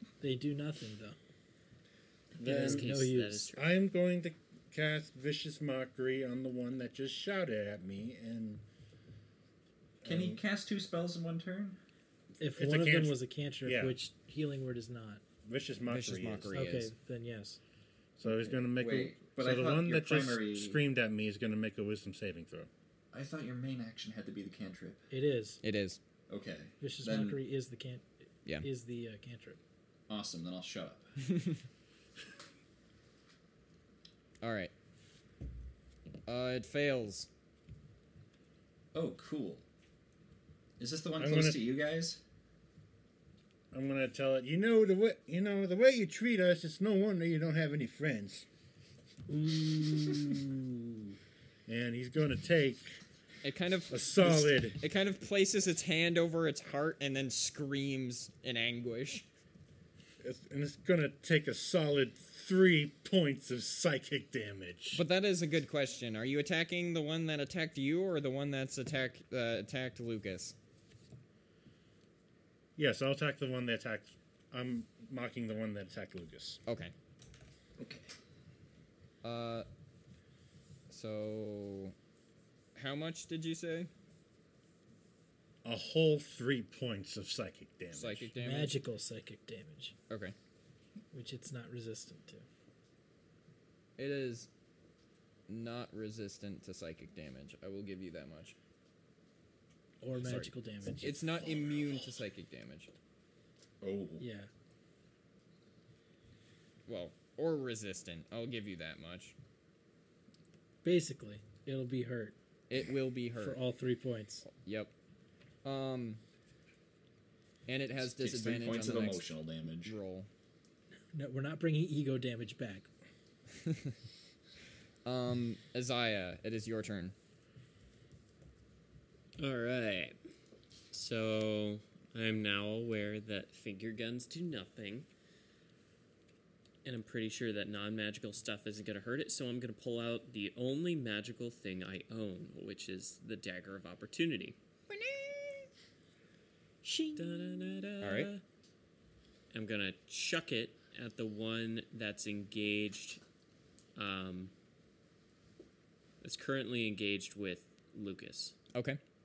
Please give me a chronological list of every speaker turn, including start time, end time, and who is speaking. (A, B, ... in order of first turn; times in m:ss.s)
0:00.2-0:01.2 A
0:02.4-0:03.7 B
0:02.4-0:03.5 A
0:02.5-0:02.8 C
0:03.5-0:08.6 C
0:10.0-0:10.4 C
0:10.0-0:11.8 D
0:12.4-0:15.2 A
0:12.6-0:14.0 C
0:15.4-0:16.6 C
0:15.9-0:16.9 E
0:16.5-0:17.6 A
0:18.2-0:22.7 C
0:18.6-0:20.8 D
0:23.1-0:25.0 D
0:25.1-0:25.6 A
0:25.6-0:26.0 E
0:26.3-0:27.4 D
0:26.8-0:28.0 A
0:28.6-0:29.6 A
0:30.1-0:31.1 D
0:31.3-0:31.6 E
0:34.4-0:34.7 E
0:36.3-0:37.3 E
0:38.9-0:39.6 D
0:40.8-0:42.2 D
0:41.2-0:41.6 C
0:43.7-0:48.5 C
0:49.3-0:50.4 A
0:49.8-0:50.4 C
0:51.7-0:53.0 C
0:53.4-0:59.2 E
0:53.9-0:54.8 C
1:00.2-1:05.0 C
1:04.9-1:10.5 E
1:12.8-1:16.6 C
1:16.6-1:16.9 E
1:17.8-1:18.1 D
1:19.2-1:19.7 E
1:20.9-1:21.9 E
1:22.7-1:23.9 E
1:25.6-1:28.3 C
1:27.9-1:28.8 E
1:28.4-1:29.9 A
1:30.1-1:30.3 E
1:31.1-1:32.4 A
1:34.0-1:34.5 E
1:35.5-1:38.5 E
1:40.0-1:41.3 A
1:40.2-1:40.5 E
1:41.0-1:42.9 E
1:43.8-1:44.2 D
1:44.2-1:44.5 A
1:46.9-1:49.3 E
1:50.8-1:52.3 A
1:52.7-1:53.6 E
1:53.4-1:54.4 A
1:54.5-1:54.9 E
1:55.6-1:56.2 E
1:57.6-1:59.3 E
1:58.0-2:00.0 D
1:59.8-2:00.3 E
2:01.1-2:02.9 A
2:03.6-2:03.9 E
2:05.0-2:07.1 E
2:09.4-2:10.2 B
2:10.9-2:15.1 B
2:16.8-2:24.6 B
2:24.9-2:25.7 E
2:26.8-2:27.8 A
2:27.2-2:28.4 B
2:28.0-2:28.3 E
2:29.5-2:33.2 B
2:34.0-2:34.5 B
2:36.2-2:38.5 B
2:38.7-2:39.0 E